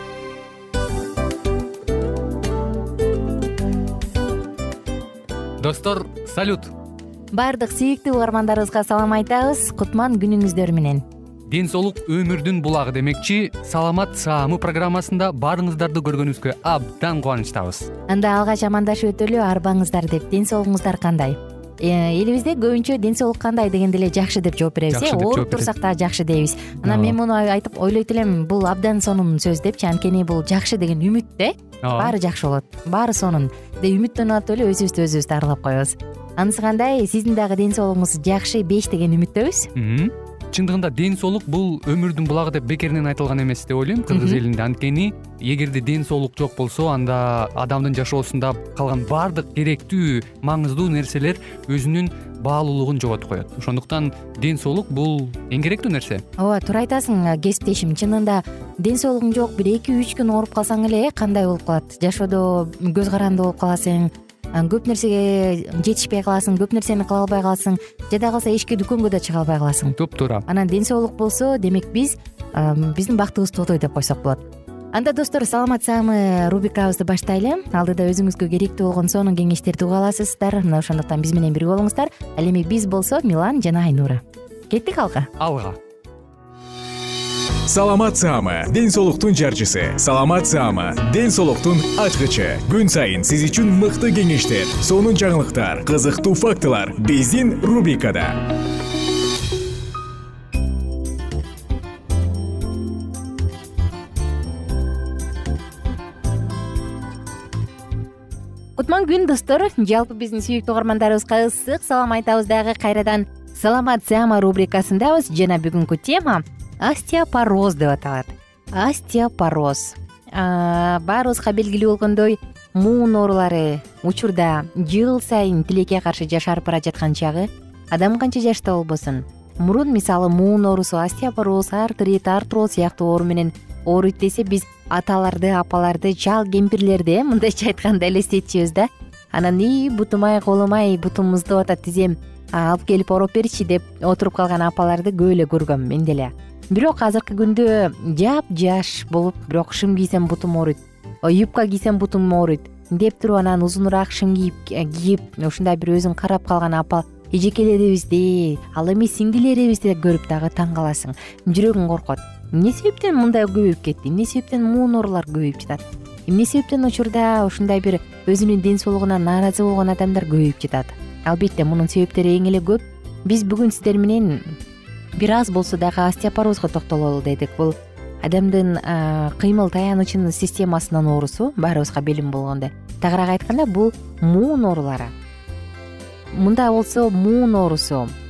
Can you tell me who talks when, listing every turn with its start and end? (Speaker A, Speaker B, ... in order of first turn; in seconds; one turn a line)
Speaker A: 5.6-6.7
Speaker B: 7.3-11.0
Speaker A: 11.5-17.9
Speaker B: 18.1-39.7
Speaker A: 24.9-25.7
Speaker A: 26.8-27.1
Speaker A: 31.8-32.1
Speaker A: 39.8-56.2
Speaker B: 44.1-44.4
Speaker B: 56.4-85.3
Speaker A: 70.0-70.4
Speaker A: 85.4-85.8
Speaker C: 87.7-98.4
Speaker B: 108.8-174.5
Speaker B: 175.2-185.1
Speaker B: 186.3-188.1